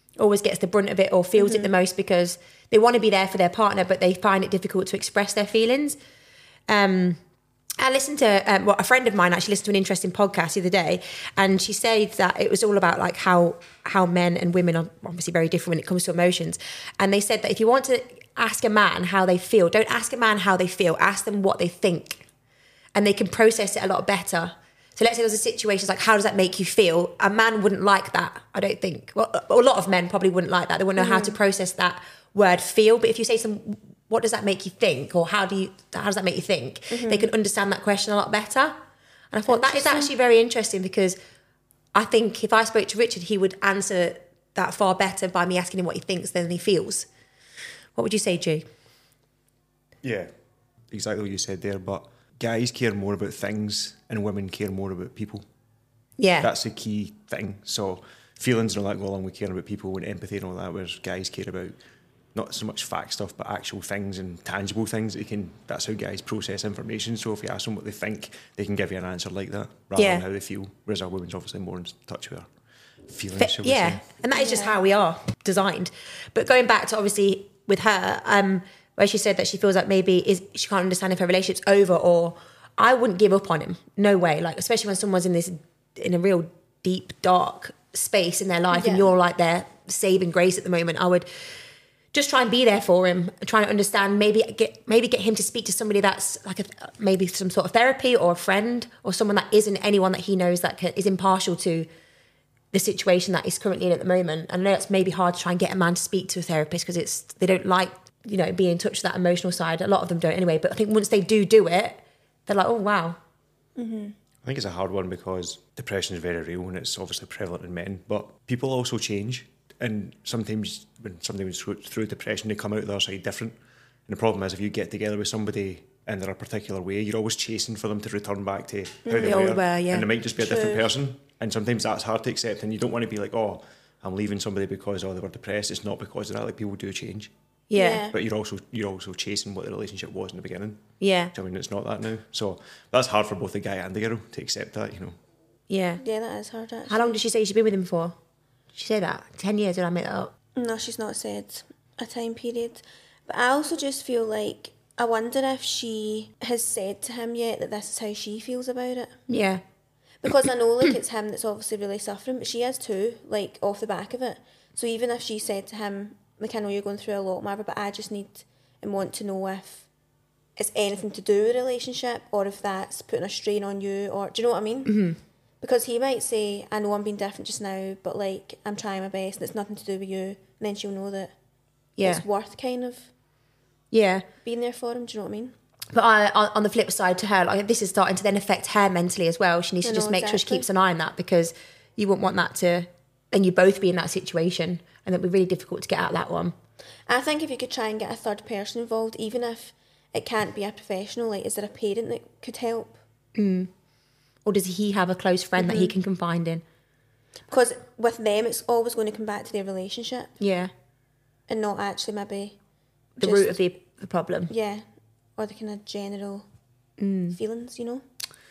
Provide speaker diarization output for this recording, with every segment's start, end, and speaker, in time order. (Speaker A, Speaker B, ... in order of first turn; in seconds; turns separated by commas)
Speaker A: 0.2-6.0, Speaker B: 1.4-1.7, Speaker A: 6.7-7.2, Speaker A: 7.8-22.2, Speaker A: 22.9-38.8, Speaker B: 31.0-31.4, Speaker B: 36.9-37.3, Speaker A: 39.3-41.2, Speaker B: 39.5-40.1, Speaker A: 41.9-47.1, Speaker A: 48.0-48.6, Speaker C: 50.0-50.3, Speaker C: 50.9-55.4, Speaker A: 56.2-56.5, Speaker C: 56.4-61.8, Speaker C: 62.3-72.5, Speaker A: 70.0-70.2, Speaker C: 73.1-74.0, Speaker A: 73.4-91.3, Speaker B: 74.3-74.8, Speaker B: 88.7-89.1, Speaker A: 92.1-101.9, Speaker A: 102.7-113.2, Speaker B: 113.8-114.2, Speaker C: 114.4-123.6, Speaker C: 124.1-137.3, Speaker B: 129.1-129.4, Speaker A: 129.2-130.1, Speaker B: 130.4-130.9, Speaker A: 137.7-138.1, Speaker B: 137.8-138.2, Speaker C: 138.1-145.2, Speaker A: 141.0-141.3, Speaker A: 145.7-146.0, Speaker B: 146.0-147.2, Speaker A: 146.9-148.2, Speaker A: 148.7-150.3, Speaker B: 150.6-159.2, Speaker A: 159.3-159.6, Speaker B: 160.2-169.9, Speaker B: 170.6-175.0, Speaker A: 174.9-175.2, Speaker B: 175.6-181.3, Speaker A: 182.0-182.2, Speaker B: 182.0-183.1, Speaker A: 183.9-184.3, Speaker B: 184.4-185.5, Speaker A: 185.9-196.6, Speaker B: 189.8-190.7, Speaker B: 197.1-203.0, Speaker A: 203.3-203.7, Speaker A: 204.4-206.6, Speaker B: 205.6-205.9, Speaker B: 207.5-210.3, Speaker A: 210.4-210.7, Speaker B: 211.5-212.6, Speaker A: 213.2-214.5, Speaker B: 213.2-213.6, Speaker B: 214.5-214.9, Speaker B: 215.4-216.5, Speaker A: 217.0-217.4, Speaker B: 217.3-218.0